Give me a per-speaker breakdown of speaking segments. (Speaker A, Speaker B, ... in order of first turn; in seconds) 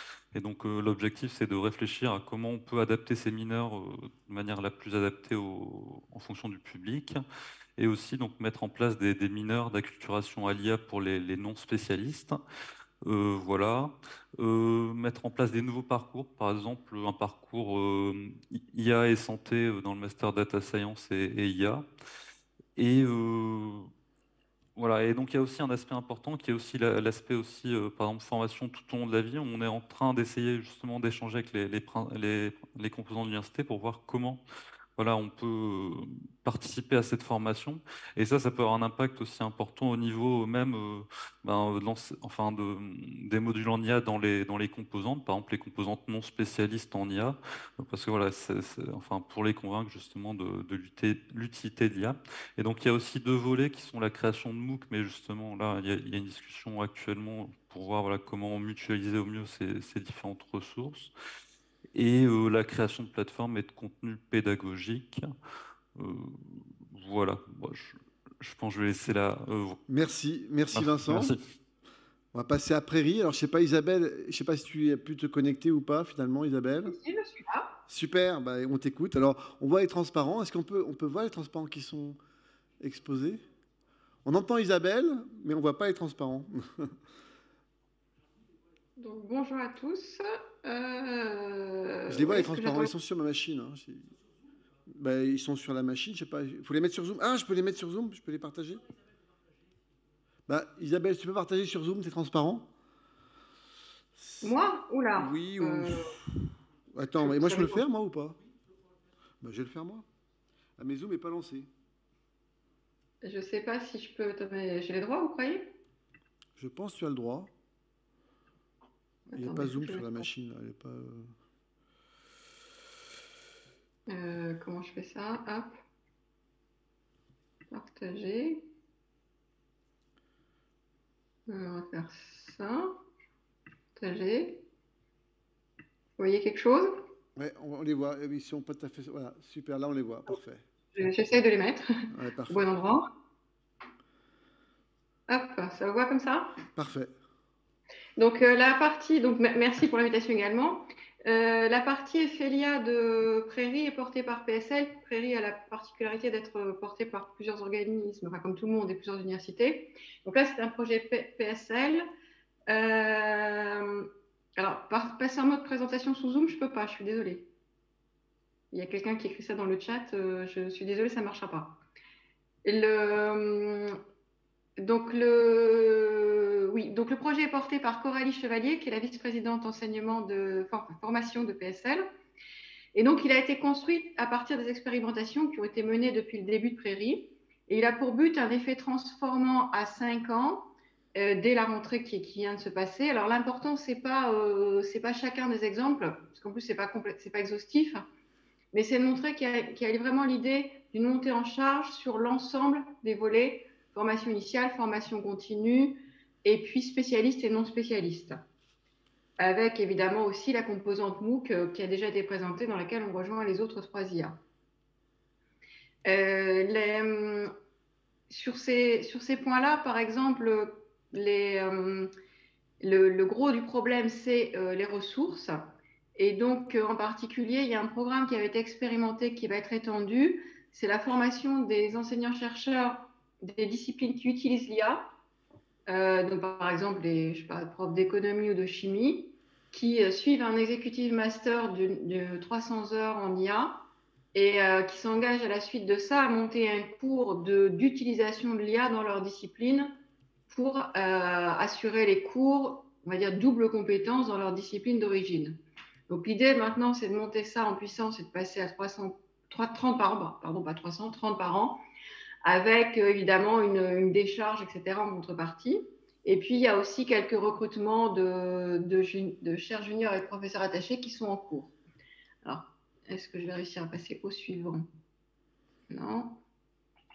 Speaker A: 0.3-7.2, 7.8-12.4, 13.0-21.9, 22.8-23.9, 24.8-34.4, 35.0-61.1, 62.0-65.3, 66.0-69.8, 70.7-71.4
Speaker B: 69.9-71.4, 72.3-77.0, 77.9-82.2, 82.8-83.4, 84.2-86.9, 92.1-94.1, 94.9-98.8, 100.5-102.7, 104.2-104.6, 105.2-106.2, 106.9-108.4, 109.4-110.1, 110.8-111.7, 116.6-117.5, 119.3-121.3, 137.4-140.6, 142.1-143.0, 146.8-147.1
Speaker C: 76.9-77.8, 89.0-92.9, 104.4-106.2, 107.2-107.8, 113.2-115.7, 119.3-120.2, 124.1-125.7, 127.7-128.7, 131.5-133.0, 134.0-134.6, 136.2-137.0, 141.0-143.1, 145.3-146.6, 148.2-162.1, 162.7-167.5, 168.7-171.8, 172.6-174.0, 174.8-182.1, 182.9-198.1, 198.7-208.4, 209.4-214.4, 216.1-217.5, 218.3-222.1, 222.8-235.1, 235.9-250.0, 250.5-261.8, 262.4-271.7, 272.4-274.9, 275.9-276.4